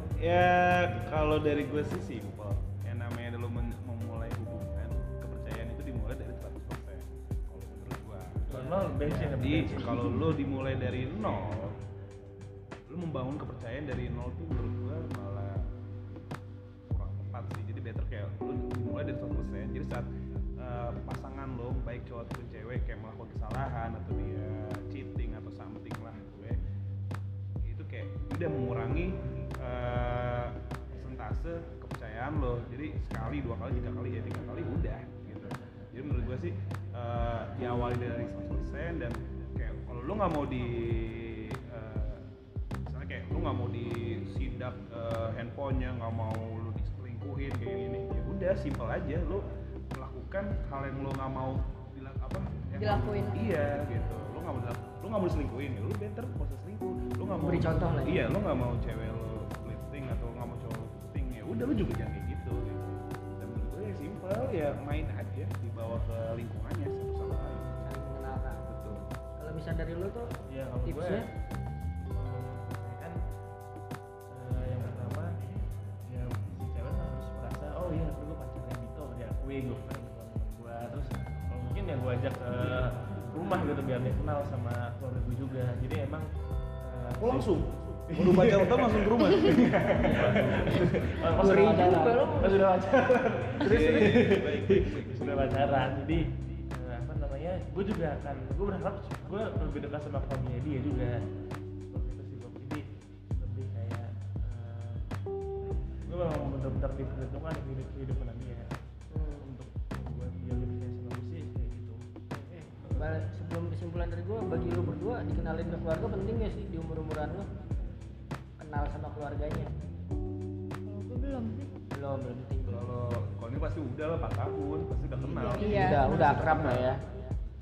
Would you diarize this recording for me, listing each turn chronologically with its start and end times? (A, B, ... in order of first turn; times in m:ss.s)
0:00.2-0:11.8 A
0:08.5-0:10.0 B
0:12.9-0:15.7 A
0:16.9-0:20.1 A
0:20.6-0:26.6 A
0:27.6-0:42.2 A
0:42.8-1:07.8 A
0:52.8-0:53.5 C
0:57.3-0:58.3 D
1:07.8-1:08.6 D
1:08.7-1:09.0 A
1:09.4-1:10.3 D
1:10.5-1:11.3 B
1:10.8-1:11.3 D
1:12.0-1:13.2 B
1:14.3-1:15.3 B
1:16.1-1:26.3 B
1:26.8-1:41.2 B
1:27.2-1:31.1 A
1:31.4-1:32.7 D
1:33.6-1:36.0 A
1:33.6-1:34.2 D
1:41.9-1:45.1 B
1:46.0-1:48.8 B
1:49.1-1:49.5 D
1:49.4-1:52.0 B
1:52.3-1:57.5 D
1:58.6-1:59.7 D
2:00.9-2:01.7 C
2:01.9-2:02.9 D
2:02.6-2:06.9 A
2:05.2-2:07.3 D
2:05.6-2:06.3 C